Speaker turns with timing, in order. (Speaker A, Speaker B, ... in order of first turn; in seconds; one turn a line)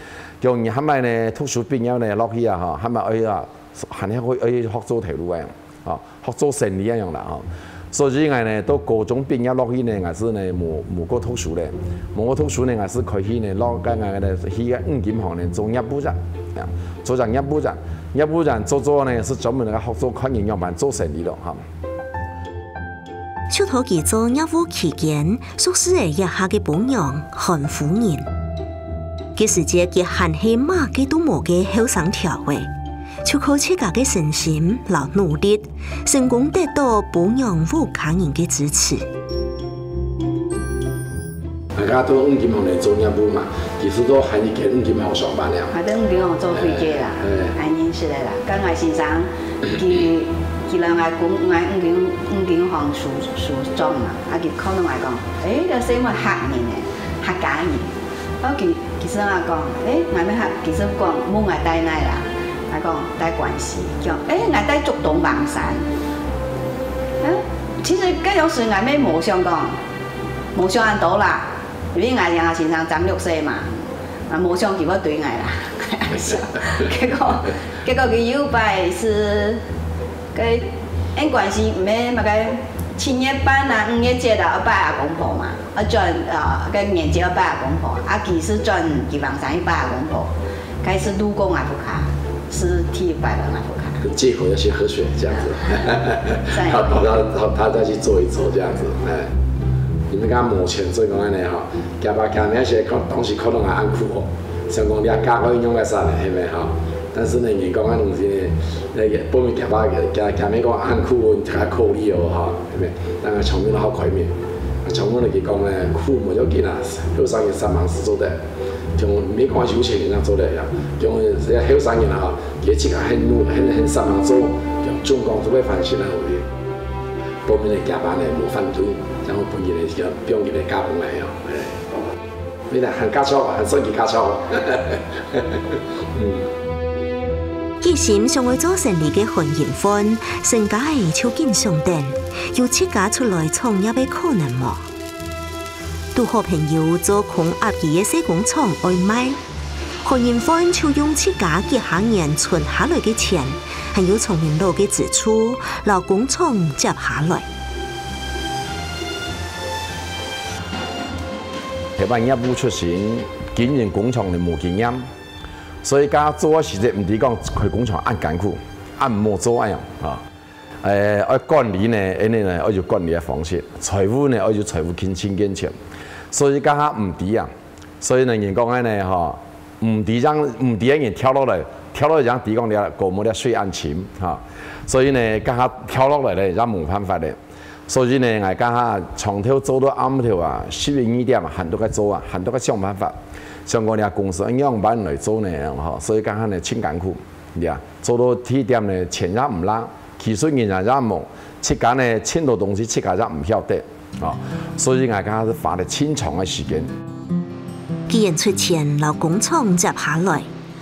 Speaker A: 0.4-21.6
Speaker B: 23.5-28.3
Speaker B: 29.4-32.7
Speaker B: 33.2-39.1
Speaker A: 41.7-45.7
Speaker C: 45.7-65.9
Speaker A: 46.5-47.5
Speaker C: 67.2-69.8
Speaker C: 70.5-79.6
Speaker C: 80.3-94.0
Speaker A: 94.0-99.3
Speaker C: 96.5-97.1
Speaker A: 100.1-118.4
Speaker A: 119.0-126.5
Speaker A: 127.5-131.8
Speaker A: 132.7-136.4
Speaker B: 137.8-144.9
Speaker B: 146.1-149.4
Speaker B: 150.0-157.5
Speaker A: 162.0-165.1
Speaker A: 165.8-170.2
Speaker A: 170.8-175.7
Speaker A: 176.3-206.9
Speaker B: 208.1-210.5